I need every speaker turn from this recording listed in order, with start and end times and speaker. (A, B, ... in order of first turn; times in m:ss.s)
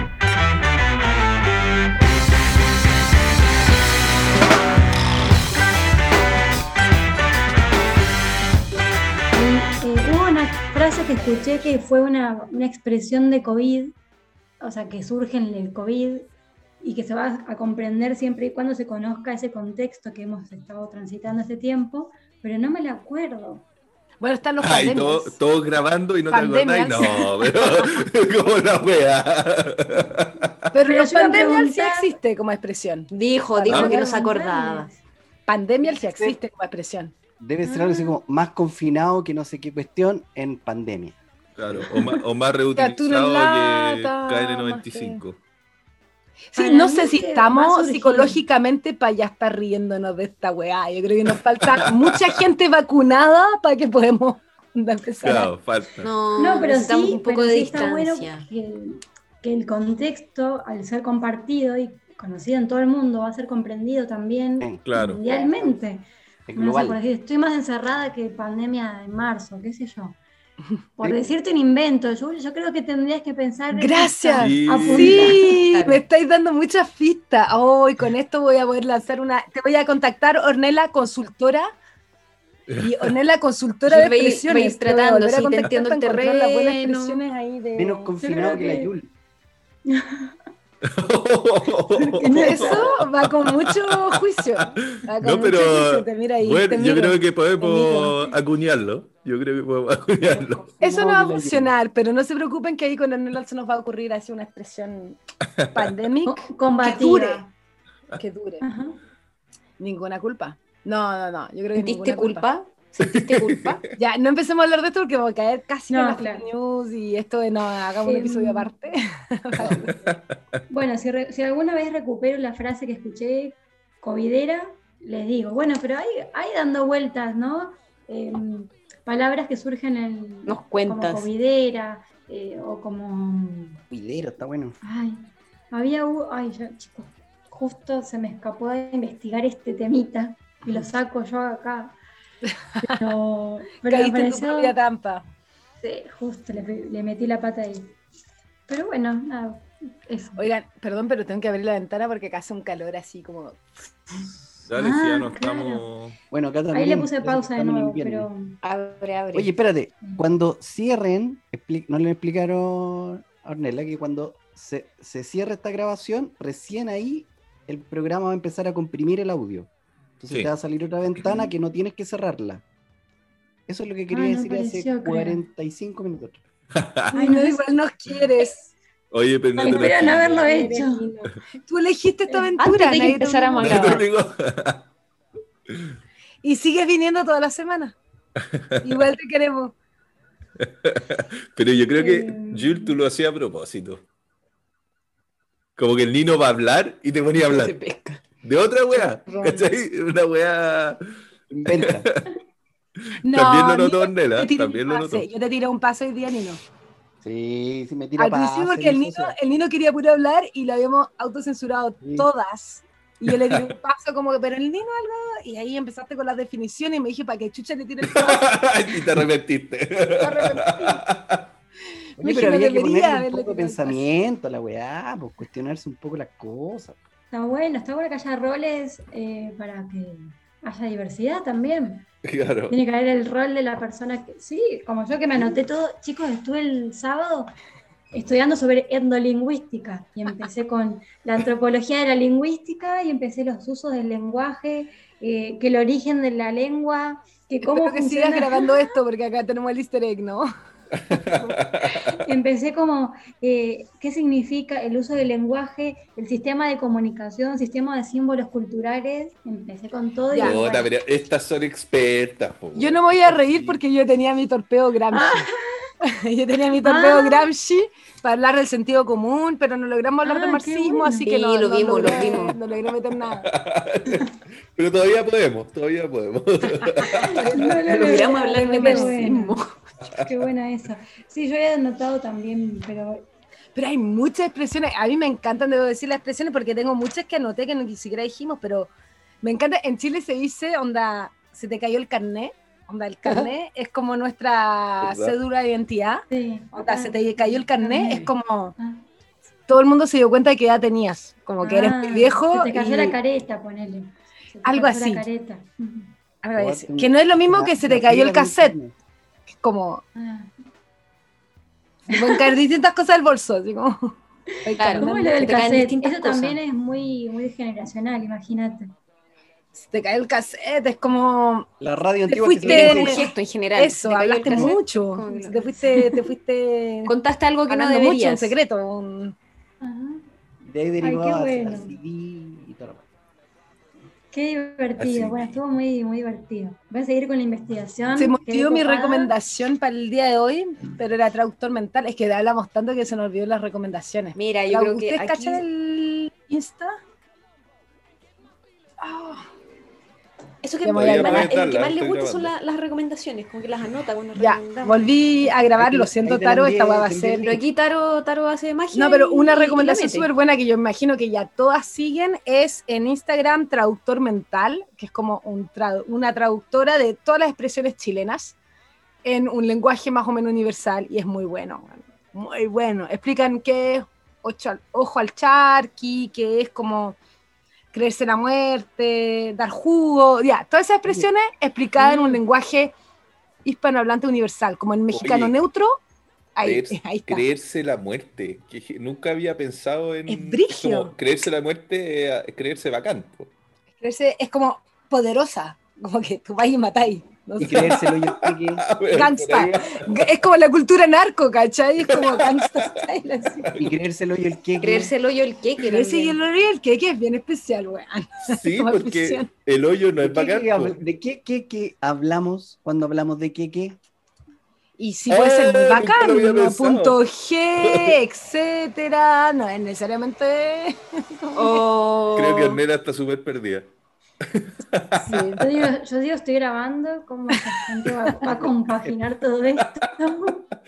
0:09.3-0:13.9 A
0:14.6-0:16.3 A
0:16.8-0:23.6 A
0:24.2-0:25.4 B
0:24.6-0:30.7 C
0:26.3-0:27.8 B
0:30.7-0:34.1 B
0:30.8-0:32.2 A
0:33.1-0:34.9 D
0:33.7-0:35.0 A
0:35.5-0:37.1 B
0:36.0-0:36.4 E
0:37.4-0:41.2 E
0:41.6-0:45.4 C
0:42.7-0:45.2 B
0:46.5-0:55.5 B
0:46.6-0:48.4 A
0:51.7-0:52.3 C
0:55.2-0:56.1 C
0:56.0-0:58.5 D
0:56.4-1:10.2 A
1:04.8-1:05.2 C
1:06.5-1:07.0 E
1:11.0-1:15.5 A
1:13.7-1:21.7 B
1:14.4-1:15.3 C
1:15.6-1:16.0 D
1:22.7-1:23.0 C
1:22.8-1:28.1 B
1:23.8-1:27.2 D
1:27.8-1:29.1 E
1:28.2-1:28.9 A
1:29.8-1:30.3 A
1:30.9-1:40.8 C
1:32.0-1:33.0 A
1:32.3-1:38.3 B
1:40.3-1:41.7 E
1:40.8-1:45.2 B
1:45.5-1:45.8 C
1:45.7-1:47.4 B
1:46.2-1:47.5 A
1:48.2-1:48.6 B
1:48.6-1:49.0 A
1:49.8-1:52.5 B
1:51.7-1:53.8 D
1:53.0-1:53.9 C
1:54.0-1:59.9 B
1:55.9-1:56.4 A
1:58.0-1:58.7 A
1:59.7-2:00.4 C
2:00.7-2:13.8 A
2:10.4-2:11.3 D
2:13.9-2:14.7 E
2:14.8-2:22.0 A
2:22.8-2:24.7 A
2:23.8-2:25.2 B
2:25.8-2:27.9 A
2:28.7-2:30.4 A
2:30.4-2:33.7 B
2:34.6-2:36.2 C
2:34.7-2:35.8 A
2:36.3-2:38.3 E
2:36.7-2:38.6 A
2:38.6-2:39.5 D
2:39.3-2:52.6 E
2:53.7-2:56.4 E
2:54.1-2:55.4 A
2:56.8-2:57.1 C
2:57.1-2:58.5 A
2:57.1-2:58.7 B
2:59.1-3:00.5 C
2:59.6-3:01.0 A
2:59.6-3:01.3 D
3:01.6-3:03.8 B
3:02.3-3:02.5 A
3:02.6-3:04.0 D
3:03.6-3:04.9 C
3:06.4-3:08.0 B
3:08.4-3:09.0 C
3:08.8-3:09.7 B
3:10.6-3:14.0 C
3:11.9-3:13.0 A
3:15.8-3:17.8 C
3:17.4-3:18.2 D
3:18.4-3:21.0 C
3:19.3-3:19.7 D
3:21.5-3:22.0 E
3:21.6-3:22.2 C
3:23.1-3:25.2 C
3:23.2-3:26.6 B
3:27.2-3:29.3 E
3:28.2-3:38.5 B
3:32.0-3:32.3 E
3:33.3-3:33.7 C
3:38.0-3:41.4 C
3:40.2-3:41.0 B
3:42.2-3:44.0 B
3:42.2-3:47.0 E
3:47.3-3:52.0 A
3:52.2-3:52.8 C
3:52.7-3:57.5 A
3:55.3-3:55.6 E
3:58.1-4:08.9 A
4:07.6-4:10.5 B
4:11.1-4:12.2 C
4:12.1-4:20.9 A
4:20.3-4:20.6 B
4:20.4-4:23.8 C
4:22.7-4:25.4 B
4:25.1-4:25.7 A
4:26.2-4:33.4 B
4:26.8-4:27.5 A
4:30.2-4:31.3 A
4:31.2-4:32.6 D
4:32.0-4:32.4 A
4:33.4-4:37.8 C
4:37.1-4:39.6 A
4:37.8-4:39.7 D
4:37.9-4:39.2 B
4:40.2-4:43.2 A
4:43.7-4:48.9 B
4:49.4-4:58.7 B
4:55.0-4:55.3 C
4:56.3-4:59.0 A
4:59.7-5:03.2 B
5:01.6-5:06.1 A
5:04.6-5:05.2 B
5:06.4-5:08.7 B
5:06.6-5:08.9 E
5:09.6-5:10.0 B
5:10.2-5:10.5 A
5:12.1-5:14.1 B
5:14.5-5:18.9 A
5:14.6-5:15.6 B
5:14.8-5:16.6 D
5:19.7-5:21.7 B
5:21.8-5:23.3 E
5:22.3-5:27.1 B
5:22.6-5:25.7 D
5:25.9-5:26.2 A
5:27.0-5:28.6 D
5:27.7-5:29.3 B
5:29.8-5:30.2 A
5:30.6-5:33.0 E
5:31.0-5:32.0 A
5:34.3-5:39.3 A
5:35.0-5:35.6 C
5:38.1-5:46.9 B
5:44.3-5:45.6 D
5:49.0-5:49.4 B
5:50.6-5:55.2 D
5:50.8-5:51.5 B
5:50.9-5:52.5 C
5:54.3-5:57.5 B
5:55.7-5:57.6 E
5:57.4-6:00.3 D
5:58.9-6:08.6 B
6:09.2-6:17.2 B
6:17.9-6:22.9 B
6:22.0-6:22.4 A
6:23.6-6:26.0 B
6:25.1-6:25.5 C
6:26.6-6:27.4 B
6:26.6-6:33.5 C
6:30.3-6:31.1 B
6:34.0-6:38.0 B
6:37.6-6:38.9 E
6:38.0-6:40.0 C
6:39.1-6:43.7 B
6:42.0-6:43.0 C
6:43.8-6:45.1 E
6:44.8-6:46.4 D
6:45.8-6:49.5 B
6:48.5-6:51.0 C
6:50.2-6:54.0 E
6:55.0-7:01.8 B
6:55.3-6:57.2 C
6:57.8-6:58.1 C
7:01.5-7:02.8 D
7:02.3-7:03.9 C
7:04.5-7:05.4 C
7:05.2-7:10.6 A
7:05.3-7:05.6 B